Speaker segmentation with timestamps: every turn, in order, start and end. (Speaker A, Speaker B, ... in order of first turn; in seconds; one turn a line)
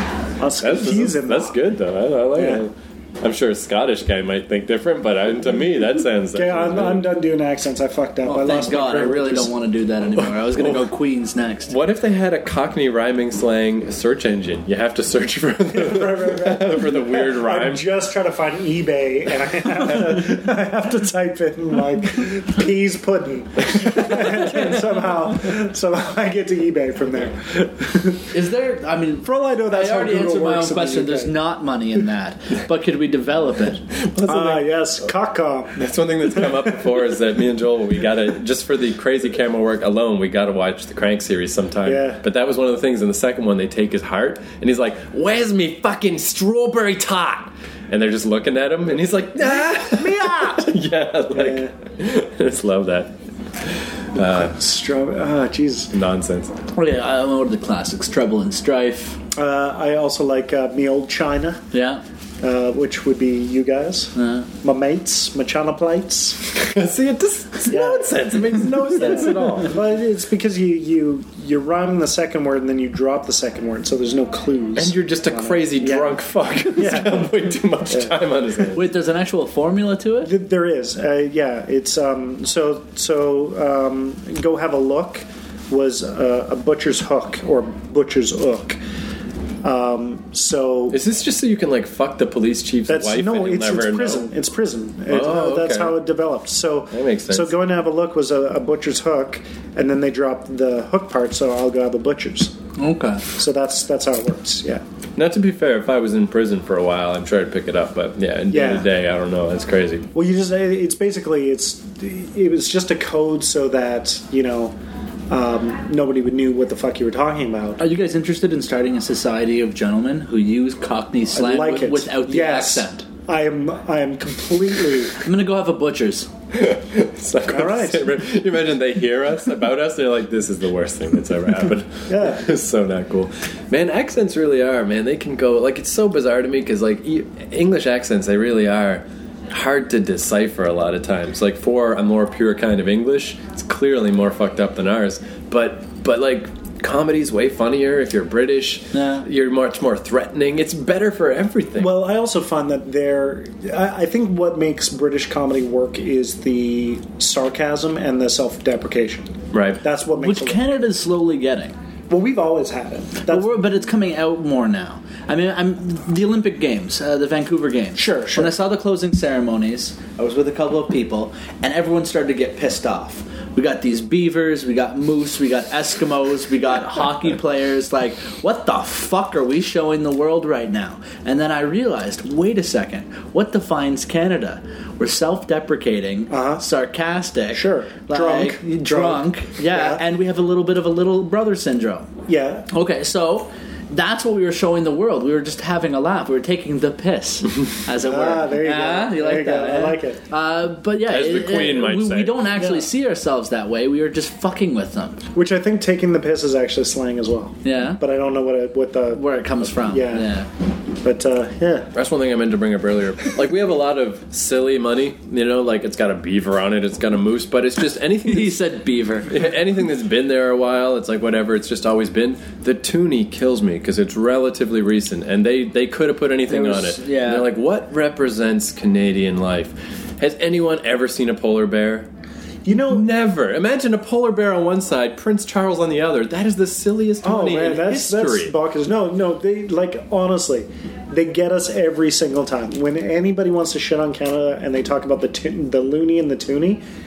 Speaker A: 0.4-1.6
Speaker B: 0.6-7.0
Speaker A: 2.3-2.6
Speaker A: 6.3-9.5
Speaker C: 8.2-11.8
Speaker B: 10.2-10.9
Speaker B: 11.7-17.9
Speaker A: 15.7-28.3
Speaker C: 28.3-33.8
Speaker A: 29.2-31.3
Speaker B: 34.0-34.8
Speaker A: 34.2-35.8
Speaker B: 35.7-54.5
Speaker A: 36.4-36.8
Speaker A: 41.9-42.2
Speaker A: 49.5-50.7
Speaker A: 51.3-51.7
Speaker A: 54.2-55.9
Speaker B: 55.9-56.5
Speaker C: 56.7-59.2
Speaker A: 59.4-61.6
Speaker C: 61.7-62.0
Speaker A: 62.4-66.6
Speaker C: 64.2-64.5
Speaker B: 66.5-69.8
Speaker A: 67.7-76.2
Speaker B: 74.8-78.8
Speaker A: 76.7-78.1
Speaker C: 78.7-80.3
Speaker A: 80.2-88.8
Speaker A: 89.6-91.0
Speaker B: 90.9-94.3
Speaker A: 92.9-102.5
Speaker B: 95.1-96.0
Speaker B: 96.9-97.5
Speaker C: 102.8-103.2
Speaker A: 103.3-104.8
Speaker B: 105.2-110.1
Speaker A: 108.5-108.9
Speaker A: 110.1-114.7
Speaker A: 115.3-117.8
Speaker C: 117.8-123.0
Speaker A: 121.3-125.2
Speaker C: 125.2-126.3
Speaker B: 126.5-152.0
Speaker A: 127.5-128.1
Speaker A: 132.1-132.4
Speaker C: 148.9-149.2
Speaker A: 151.8-160.8
Speaker B: 159.5-159.8
Speaker C: 160.1-161.7
Speaker A: 162.1-163.6
Speaker C: 163.2-192.1
Speaker A: 167.9-168.5
Speaker A: 186.3-186.6
Speaker A: 187.5-190.0
Speaker A: 192.3-192.7
Speaker C: 192.7-205.2
Speaker A: 198.0-200.2
Speaker B: 201.1-202.4
Speaker A: 202.6-202.9
Speaker A: 205.3-210.4
Speaker C: 207.6-208.0
Speaker C: 209.1-210.5
Speaker A: 211.0-211.9
Speaker B: 211.9-218.6
Speaker C: 218.2-219.4
Speaker B: 219.3-232.1
Speaker C: 226.5-227.5
Speaker A: 232.7-233.1
Speaker B: 232.7-238.5
Speaker A: 237.2-246.8